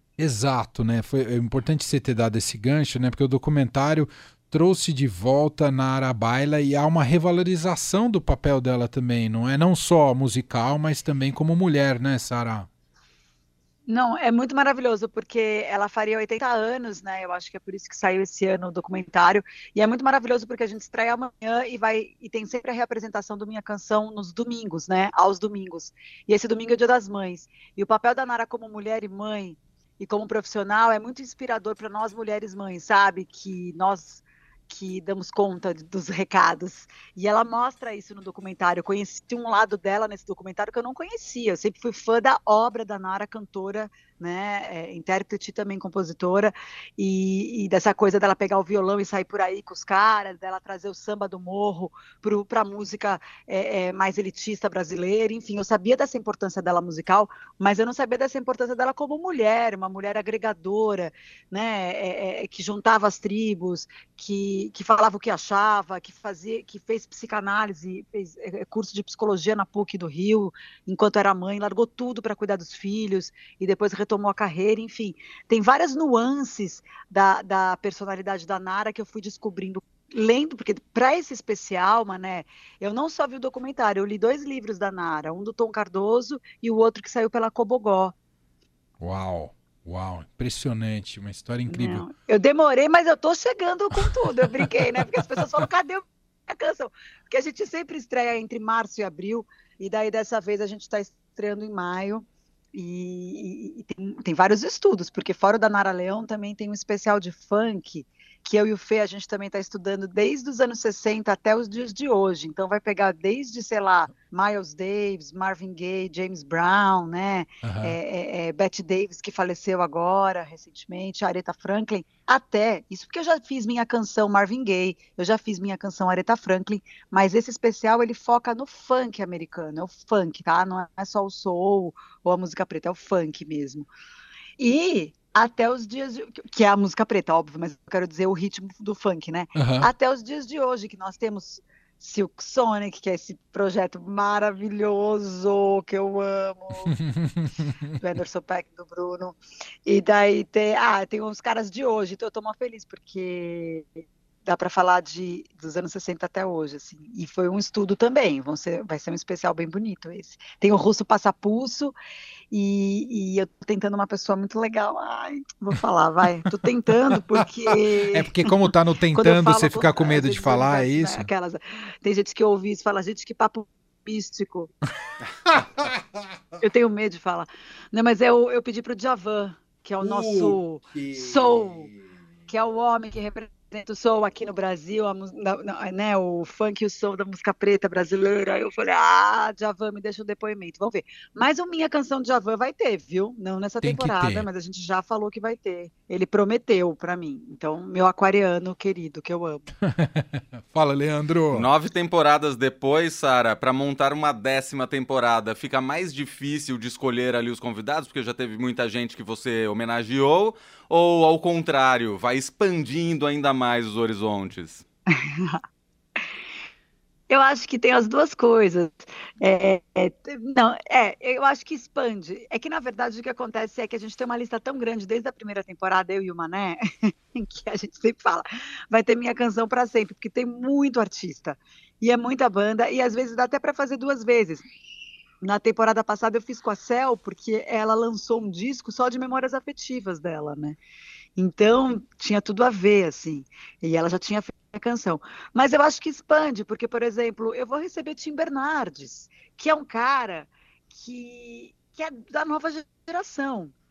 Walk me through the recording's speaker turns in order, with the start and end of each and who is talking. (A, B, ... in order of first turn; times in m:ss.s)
0:00.2-0:12.7 A
0:13.9-1:28.1 B
1:29.0-1:32.1 A
1:31.7-2:13.9 B
1:57.6-1:58.0 A
2:14.6-2:26.9 B
2:19.5-2:19.9 A
2:27.0-2:27.9 A
2:28.0-2:33.9 B
2:34.4-2:42.0 B
2:42.5-2:48.5 B
2:48.1-2:51.3 A
2:49.1-2:54.7 B
2:55.5-2:55.9 A
2:56.6-3:01.9 B
3:00.0-3:02.0 A
3:02.5-3:19.7 B
3:13.8-3:14.5 A
3:19.9-3:21.7 A
3:21.5-3:34.8 C
3:35.1-3:35.6 B
3:37.3-3:54.6 B
3:55.4-4:00.8 B
4:01.4-4:13.7 B